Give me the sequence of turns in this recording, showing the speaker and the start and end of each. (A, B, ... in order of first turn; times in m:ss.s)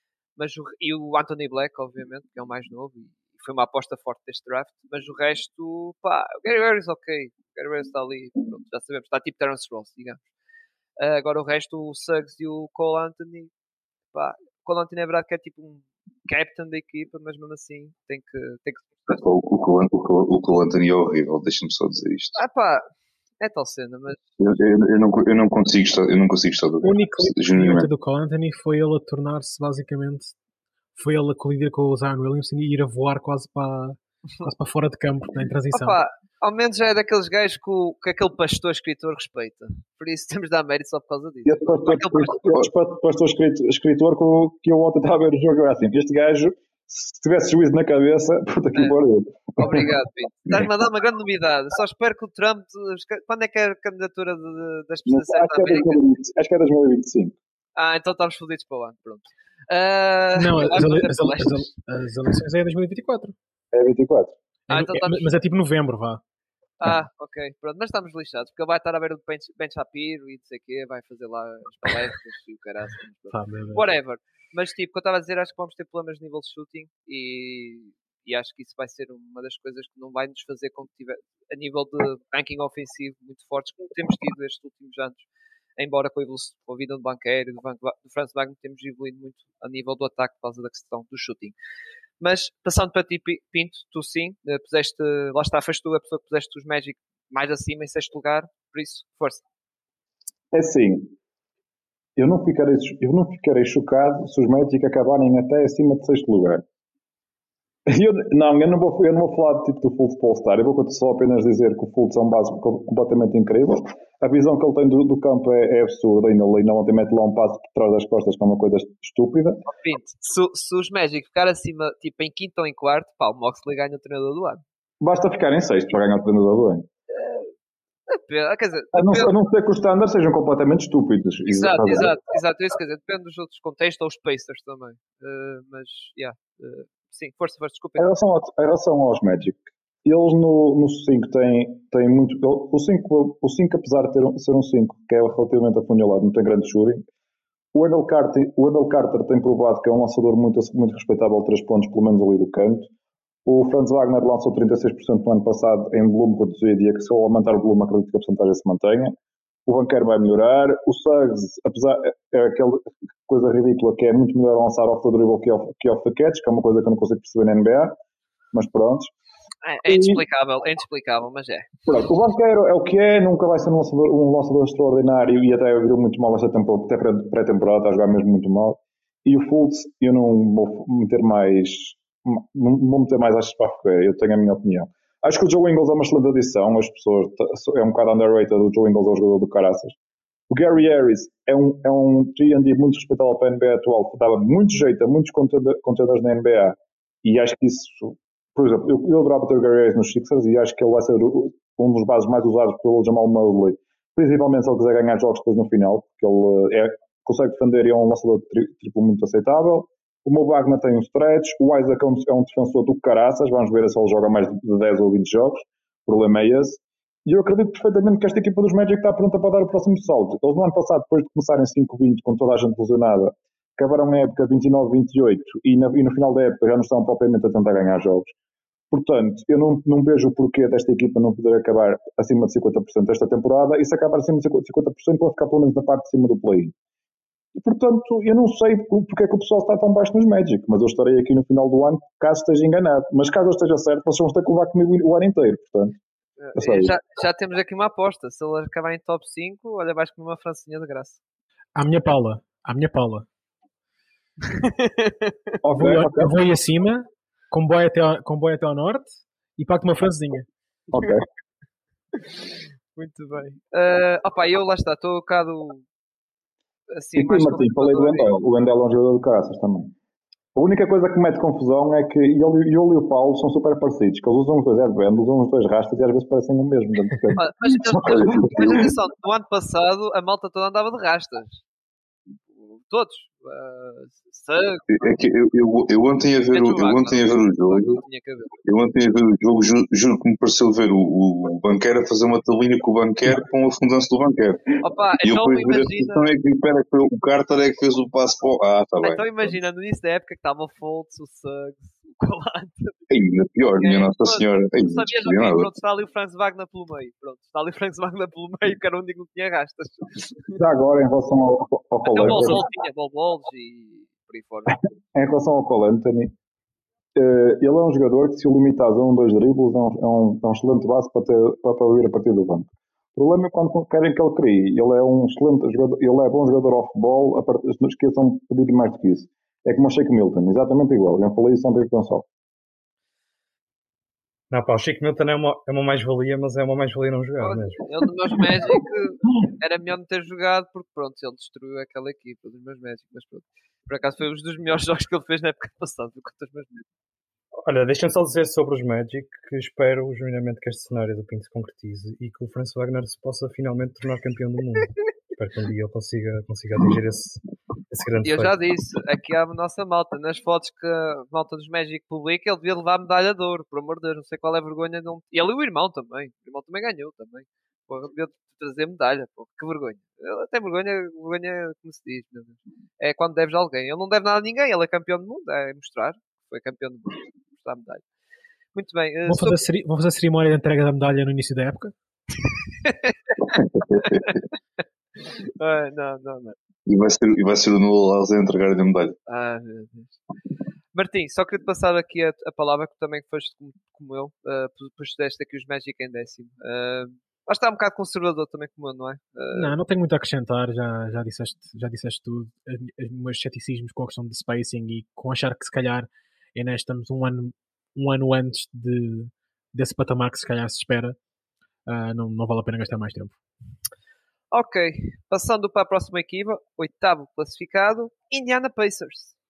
0:00.4-0:10.2 A
0:11.0-0:13.5 A
0:14.1-0:19.2 A
0:19.1-0:22.4 B
0:22.4-0:22.9 A
0:23.4-0:24.2 A
0:24.4-0:27.9 B
0:26.8-0:30.3 C
0:30.9-0:36.0 C
0:35.7-0:42.4 A
0:41.5-0:49.9 D
0:49.6-0:56.0 A
0:55.0-0:57.4 D
0:57.8-1:01.6 A
1:00.4-1:03.3 C
1:03.7-1:04.4 D
1:04.7-1:05.3 A
1:04.7-1:06.2 C
1:06.8-1:25.2 A
1:13.3-1:13.8 C
1:25.8-1:31.5 A
1:32.2-1:39.4 A
1:40.5-1:41.1 D
1:42.2-1:46.6 D
1:47.9-1:59.6 D
1:59.7-2:04.6 A
2:05.0-2:06.9 D
2:07.1-2:07.5 A
2:08.1-2:09.3 A
2:08.9-2:12.2 D
2:11.4-2:18.1 A
2:18.0-2:27.0 D
2:27.7-2:32.9 D
2:33.4-2:48.0 D
2:48.5-2:49.1 D
2:49.6-2:51.7 A
2:49.9-2:50.2 D
2:51.9-3:09.9 D
3:10.5-3:48.3 D
3:48.9-3:56.7 D
3:57.5-4:06.0 D
4:06.4-4:11.2 A
4:06.5-4:06.9 D
4:11.7-4:13.3 C
4:14.4-4:15.3 A
4:15.6-4:16.4 D
4:15.8-4:20.5 C
4:20.9-4:21.2 D
4:22.9-4:25.8 A
4:26.9-4:28.4 A
4:27.2-4:29.9 D
4:30.5-4:38.9 D
4:37.4-4:41.6 A
4:42.6-4:45.1 A
4:44.9-4:48.0 B
4:46.5-4:48.6 A
4:48.6-4:59.2 B
4:54.8-4:56.3 A
4:59.0-5:03.0 A
5:03.1-5:05.7 B
5:03.8-5:10.6 A
5:10.6-5:12.6 D
5:12.0-5:14.8 A
5:15.1-5:16.3 D
5:17.1-5:32.3 D
5:34.5-5:37.8 E
5:37.4-5:46.8 A
5:47.6-5:58.6 E
5:58.2-6:18.0 A
6:18.7-6:19.6 A
6:19.2-6:21.9 C
6:22.8-6:23.1 A
6:23.7-6:24.3 B
6:23.9-6:24.3 A
6:25.6-6:26.6 A
6:26.9-6:29.2 B
6:29.3-6:30.2 A
6:30.9-6:39.7 A
6:39.5-6:51.2 C
6:51.9-6:53.4 C
6:54.5-6:59.3 A